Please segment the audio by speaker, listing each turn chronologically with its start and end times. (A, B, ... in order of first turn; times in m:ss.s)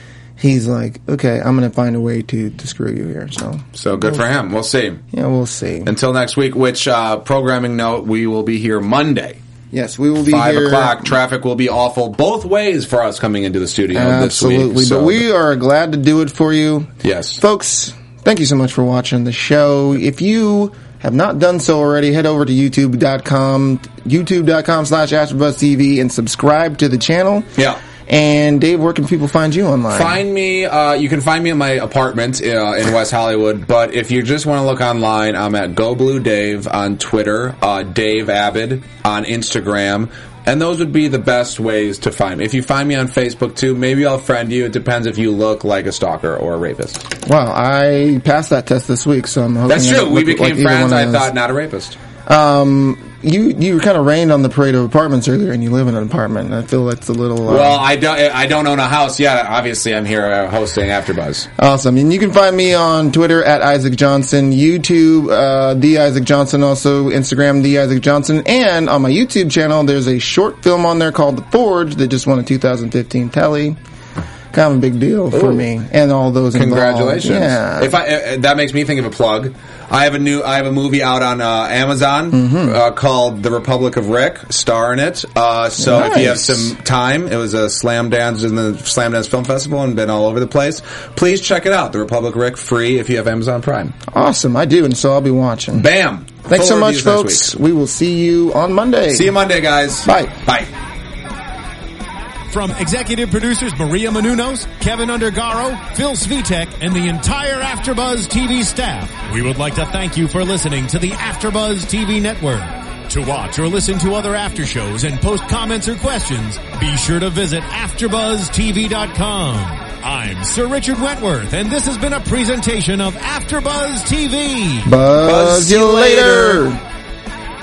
0:00.4-0:04.2 A
0:03.8-0:05.0 B
0:05.1-0:05.9 A
0:05.8-0:09.4 B
0:09.7-0:11.1 A
0:10.3-0:15.2 B
0:13.9-0:30.2 A
0:17.0-0:17.4 B
0:27.6-0:27.8 B
0:29.9-0:47.0 B
0:47.2-0:51.3 A
0:49.7-0:52.0 B
0:52.3-0:57.8 A
0:57.5-1:01.5 B
1:01.6-1:13.8 A
1:14.5-1:18.0 A
1:15.3-1:15.7 B
1:16.5-1:34.0 B
1:22.3-1:22.8 A
1:25.8-1:26.7 A
1:34.1-1:35.9 A
1:35.7-1:37.5 B
1:36.5-1:39.4 A
1:39.1-1:40.7 B
1:40.0-1:40.4 A
1:42.5-2:04.9 C
2:04.8-2:06.8 A
2:05.2-2:06.7 B